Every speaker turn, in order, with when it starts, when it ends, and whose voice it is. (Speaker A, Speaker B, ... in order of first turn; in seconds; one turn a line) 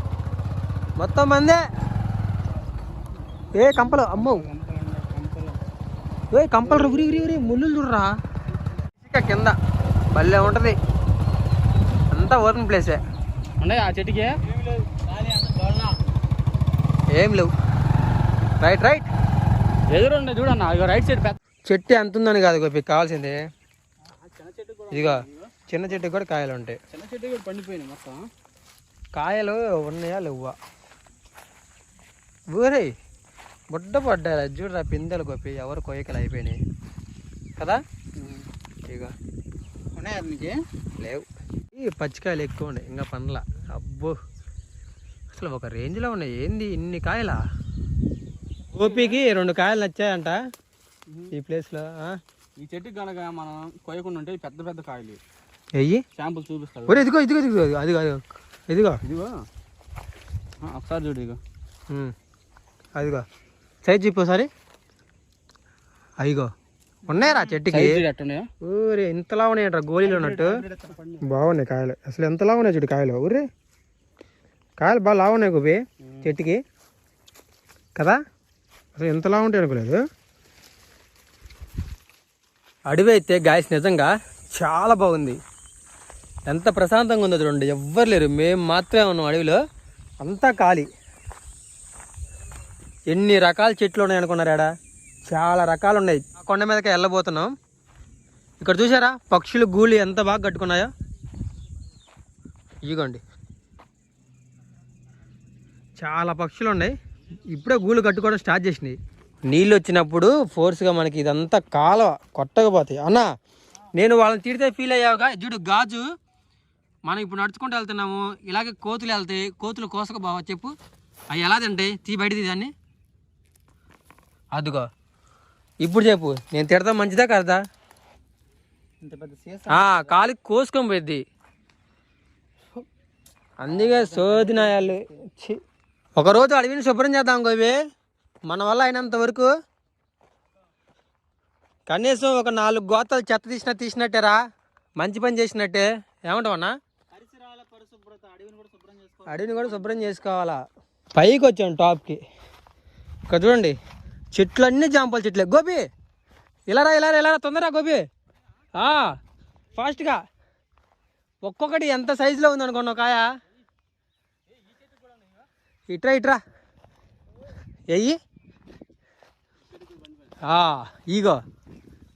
Speaker A: 1.0-1.6
Speaker A: 3.5-4.5
Speaker B: 3.8-5.6
Speaker A: 6.3-8.1
Speaker A: 9.0-9.6
Speaker A: 10.1-10.8
Speaker A: 12.1-13.0
Speaker B: 13.6-14.3
Speaker C: 14.5-16.0
Speaker A: 17.1-17.5
Speaker A: 18.6-19.1
Speaker B: 19.9-21.4
Speaker A: 21.7-23.4
Speaker B: 24.1-25.5
Speaker A: 24.9-26.8
Speaker B: 26.9-28.2
Speaker A: 29.1-30.6
Speaker A: 32.5-32.9
Speaker A: 33.7-36.6
Speaker B: 38.2-38.5
Speaker A: 38.8-39.1
Speaker C: 39.9-40.5
Speaker A: 41.0-44.2
Speaker A: 45.3-47.4
Speaker A: 48.7-50.4
Speaker B: 48.8-49.2
Speaker A: 51.3-52.2
Speaker B: 52.6-55.2
Speaker A: 55.7-56.0
Speaker B: 56.1-57.1
Speaker A: 56.9-59.0
Speaker B: 59.0-59.4
Speaker B: 60.6-61.4
Speaker A: 63.0-63.2
Speaker A: 63.8-64.5
Speaker A: 66.2-66.5
Speaker C: 67.1-67.6
Speaker A: 67.1-68.0
Speaker B: 67.7-68.5
Speaker A: 68.6-70.5
Speaker C: 70.0-71.0
Speaker B: 70.9-71.2
Speaker A: 71.2-73.5
Speaker A: 74.8-76.6
Speaker B: 76.0-76.3
Speaker A: 78.9-80.0
Speaker A: 82.9-85.4
Speaker A: 86.5-89.6
Speaker A: 90.2-90.9
Speaker A: 93.1-94.7
Speaker A: 95.3-97.5
Speaker A: 98.6-100.9
Speaker A: 102.8-103.2
Speaker A: 106.0-106.9
Speaker A: 107.5-109.0
Speaker A: 109.5-113.3
Speaker A: 114.0-116.0
Speaker A: 117.0-120.7
Speaker A: 121.3-122.7
Speaker A: 124.5-124.9
Speaker A: 125.8-127.6
Speaker C: 129.0-130.2
Speaker A: 129.7-131.2
Speaker A: 133.6-135.6
Speaker C: 133.7-135.2
Speaker A: 136.2-137.8
Speaker A: 138.5-139.5
Speaker A: 141.9-144.4
Speaker A: 145.0-146.7
Speaker C: 147.1-150.1
Speaker A: 149.3-150.6
Speaker A: 151.1-152.2
Speaker A: 153.3-153.8
Speaker A: 154.3-155.8
Speaker A: 156.7-158.0
Speaker A: 158.7-159.1
Speaker A: 159.7-160.2
Speaker A: 161.4-163.3
Speaker B: 164.9-165.1
Speaker A: 165.9-166.4
Speaker A: 167.9-168.2
Speaker B: 169.8-170.3
Speaker A: 170.4-171.4